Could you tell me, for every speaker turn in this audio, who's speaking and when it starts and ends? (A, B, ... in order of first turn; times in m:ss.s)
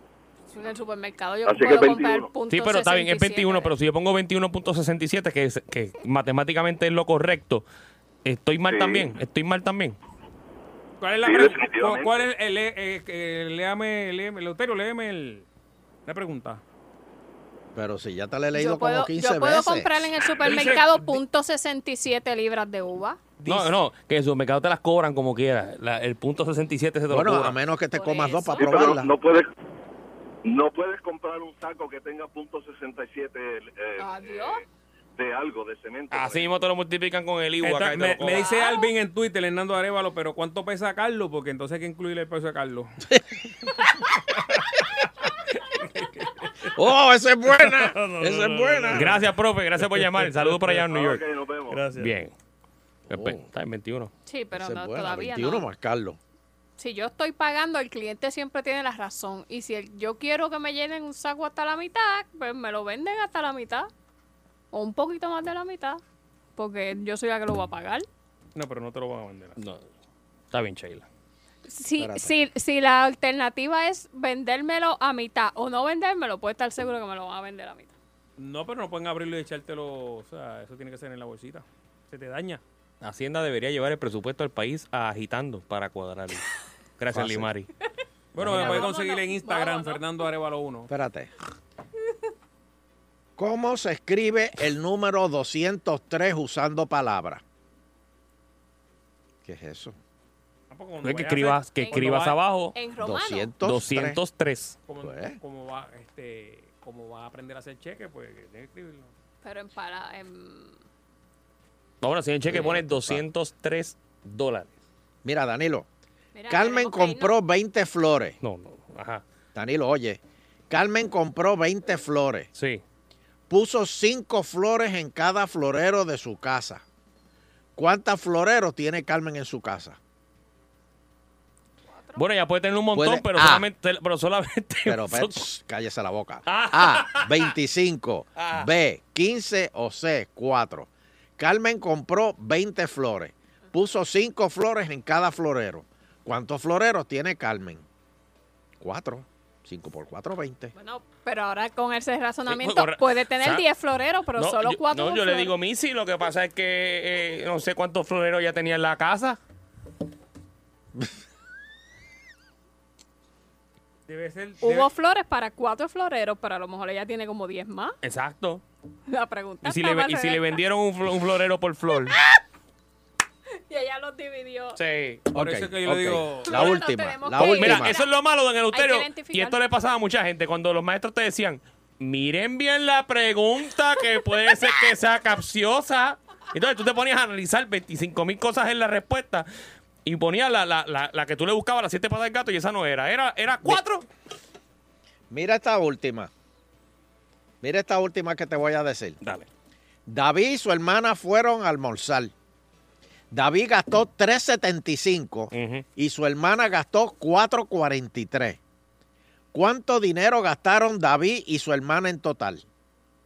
0:00.5-0:03.7 A
0:01.4-0:02.3 B
0:02.5-0:07.6 C
0:08.2-0:10.0 C
0:08.7-0:09.1 B
0:11.0-0:15.5 D
0:11.2-0:12.2 B
0:16.1-0:16.6 D
0:17.7-0:20.1 E
0:18.5-0:23.2 A
0:20.4-0:21.2 D
0:23.4-0:23.8 D
0:23.4-0:27.6 C
0:27.1-0:29.1 E
0:27.9-0:28.9 A
0:28.6-0:29.5 B
0:30.4-0:34.6 B
0:34.0-0:34.6 A
0:35.2-0:36.5 B
0:36.1-0:38.5 C
0:37.6-0:42.9 D
0:38.3-0:38.9 A
0:45.8-0:46.8 D
0:46.8-0:49.2 E
0:47.5-0:50.9 D
0:48.9-0:51.2 C
0:50.9-0:51.9 B
0:51.7-0:52.2 D
0:51.9-0:52.3 C
0:53.1-0:53.4 E
0:53.1-0:54.1 C
0:54.3-0:55.6 A
0:54.5-0:56.2 E
0:56.8-1:03.9 A
1:04.7-1:06.0 A
1:06.6-1:08.1 A
1:08.6-1:09.6 D
1:09.6-1:09.8 C
1:10.5-1:11.1 C
1:11.7-1:17.9 A
1:12.0-1:12.3 E
1:18.4-1:22.6 D
1:23.0-1:26.4 C
1:27.0-1:27.7 C
1:27.1-1:27.5 E
1:28.3-1:30.9 D
1:28.4-1:28.9 E
1:28.6-1:30.0 A
1:30.9-1:31.3 E
1:33.4-1:37.4 E
1:39.4-1:40.0 E
1:40.7-1:42.4 D
1:41.0-1:42.8 C
1:41.8-1:42.2 A
1:42.7-1:43.5 A
1:43.0-1:44.2 E
1:43.6-1:44.8 C
1:44.8-1:49.1 D
1:45.0-1:45.4 E
1:49.4-1:50.8 A
1:52.0-1:54.7 C
1:52.4-1:53.2 E
1:55.2-1:55.9 E
1:56.4-1:57.3 A
1:56.5-1:58.4 E
1:58.4-1:59.2 C
1:59.6-2:02.5 E
2:02.6-2:02.8 C
2:03.5-2:06.8 E
2:07.8-2:10.0 E
2:11.9-2:12.2 A
2:12.2-2:15.4 C
2:12.9-2:13.7 E
2:14.9-2:27.8 E
2:16.5-2:17.5 C
2:18.4-2:18.7 C
2:28.8-2:30.7 E
2:30.8-2:35.6 A
2:32.5-2:33.7 C
2:34.4-2:39.4 C
2:44.1-2:44.9 D
2:44.6-2:48.0 A
2:48.0-2:48.6 C
2:49.1-2:50.6 A
2:49.6-2:52.2 C
2:53.7-2:54.8 A
2:54.8-2:55.3 C
2:55.3-2:56.8 D
2:55.3-2:58.0 E
2:56.5-2:58.1 A
2:57.4-3:09.5 C
2:58.7-2:59.6 A
3:10.0-3:14.0 C
3:15.3-3:16.3 E
3:17.6-3:19.2 E
3:19.2-3:19.5 C
3:20.1-3:22.3 E
3:23.3-3:28.6 E
3:25.5-3:25.8 C
3:29.5-3:32.6 E